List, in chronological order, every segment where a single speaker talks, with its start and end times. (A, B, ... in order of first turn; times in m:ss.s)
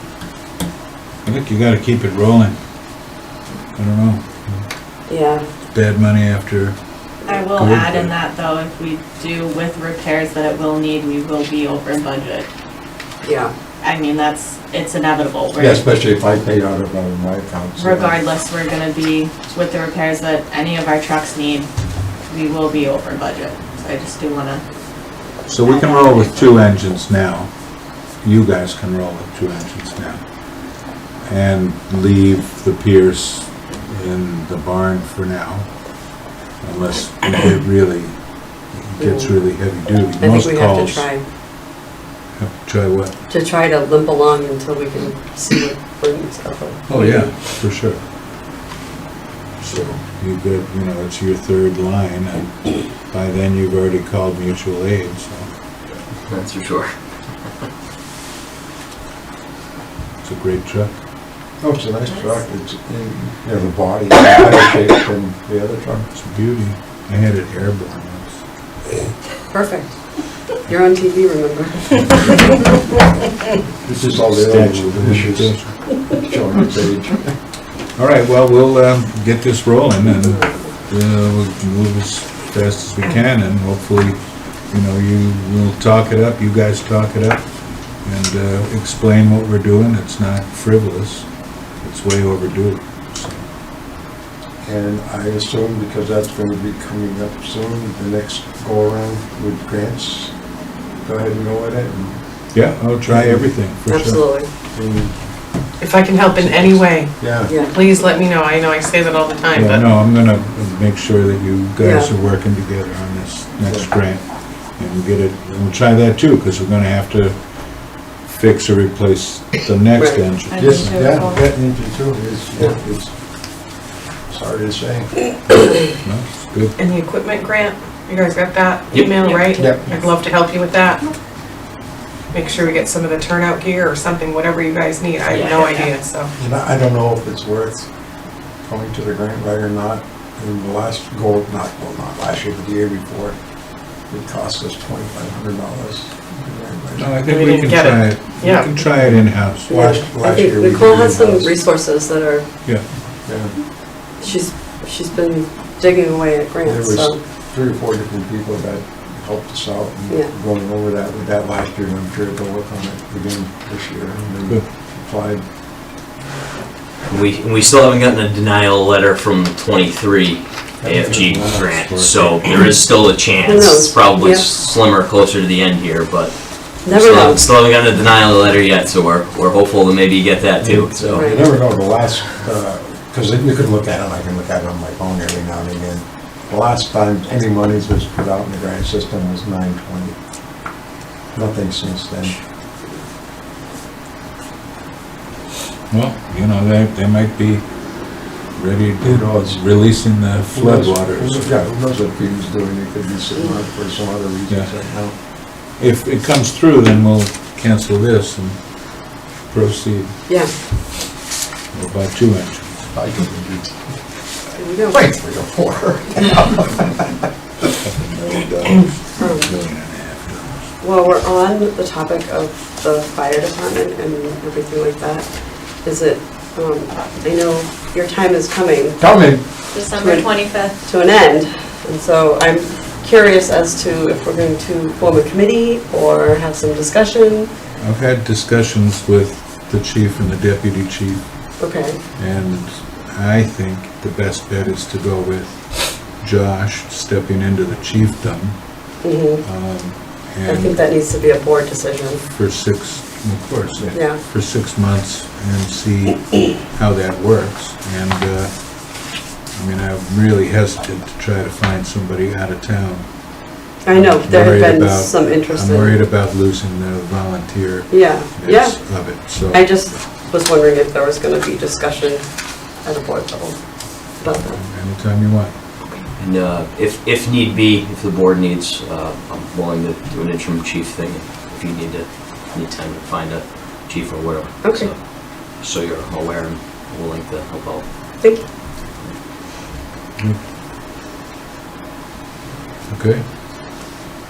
0:01.2-0:02.6 A
0:03.8-0:04.6 A
0:05.1-0:05.5 B
0:05.7-0:06.8 A
0:07.3-0:12.5 C
0:07.5-0:08.1 A
0:13.2-0:13.5 B
0:13.8-0:15.8 C
0:15.6-0:18.2 D
0:17.8-0:21.7 C
0:22.3-0:24.6 C
0:25.5-0:27.5 A
0:25.7-0:26.3 C
0:28.2-0:30.2 A
0:31.2-0:35.7 A
0:36.6-0:38.2 A
0:38.7-0:41.1 A
0:39.0-0:39.3 B
0:40.2-0:41.2 B
0:42.4-0:43.2 A
0:43.3-0:47.3 B
0:46.9-0:48.0 A
0:49.7-0:55.5 A
0:56.2-0:56.9 E
1:00.2-1:00.9 A
1:01.6-1:06.1 D
1:06.1-1:08.4 A
1:09.5-1:09.9 B
1:10.7-1:12.7 B
1:13.8-1:15.6 D
1:14.0-1:15.7 A
1:16.1-1:17.3 D
1:18.0-1:27.5 A
1:28.0-1:31.3 A
1:31.8-1:33.5 A
1:34.6-1:40.3 D
1:41.0-1:42.2 D
1:42.5-1:44.2 A
1:43.1-1:43.5 D
1:43.9-1:44.5 B
1:44.7-1:45.2 D
1:45.8-1:49.8 F
1:46.3-1:47.5 D
1:47.4-1:47.7 B
1:49.5-1:57.4 A
1:51.8-1:52.1 B
1:58.2-2:01.2 A
2:00.0-2:00.2 B
2:00.5-2:01.4 C
2:00.6-2:03.1 D
2:04.3-2:05.1 D
2:05.5-2:06.7 A
2:06.8-2:11.1 F
2:08.9-2:09.3 E
2:09.3-2:09.9 C
2:09.6-2:10.0 D
2:12.3-2:16.3 F
2:15.3-2:15.9 C
2:16.4-2:17.9 D
2:18.6-2:23.4 D
2:24.1-2:27.2 D
2:27.0-2:29.7 A
2:27.3-2:28.8 F
2:29.7-2:31.5 D
2:29.7-2:32.5 B
2:33.3-2:33.5 D
2:34.2-2:37.2 B
2:36.6-2:45.4 D
2:47.1-3:01.2 E
2:50.8-2:51.7 D
2:51.1-2:52.5 A
2:53.4-2:54.5 B
2:56.8-2:57.4 B
3:00.6-3:10.2 D
3:01.1-3:01.4 B
3:11.3-3:12.4 D
3:15.9-3:17.7 A
3:18.6-3:21.6 A
3:19.0-3:19.6 D
3:20.5-3:25.2 D
3:25.8-3:30.1 A
3:31.7-3:32.8 A
3:32.9-3:33.8 D
3:34.6-3:35.0 B
3:34.9-3:37.2 D
3:37.8-3:40.6 A
3:39.2-3:39.5 B
3:40.8-3:45.3 B
3:45.8-3:49.0 B
3:49.0-3:49.5 D
3:49.7-3:50.8 C
3:49.9-3:57.5 B
3:57.8-4:01.6 A
4:01.6-4:02.0 B
4:02.2-4:10.8 A
4:09.0-4:09.4 B
4:10.4-4:12.2 B
4:12.3-4:29.8 A
4:13.9-4:14.2 B
4:23.8-4:26.0 B
4:27.9-4:34.6 B
4:34.3-4:35.5 A
4:36.2-4:47.9 E
4:44.6-4:44.9 B
4:48.2-4:48.5 B
4:52.9-4:53.2 A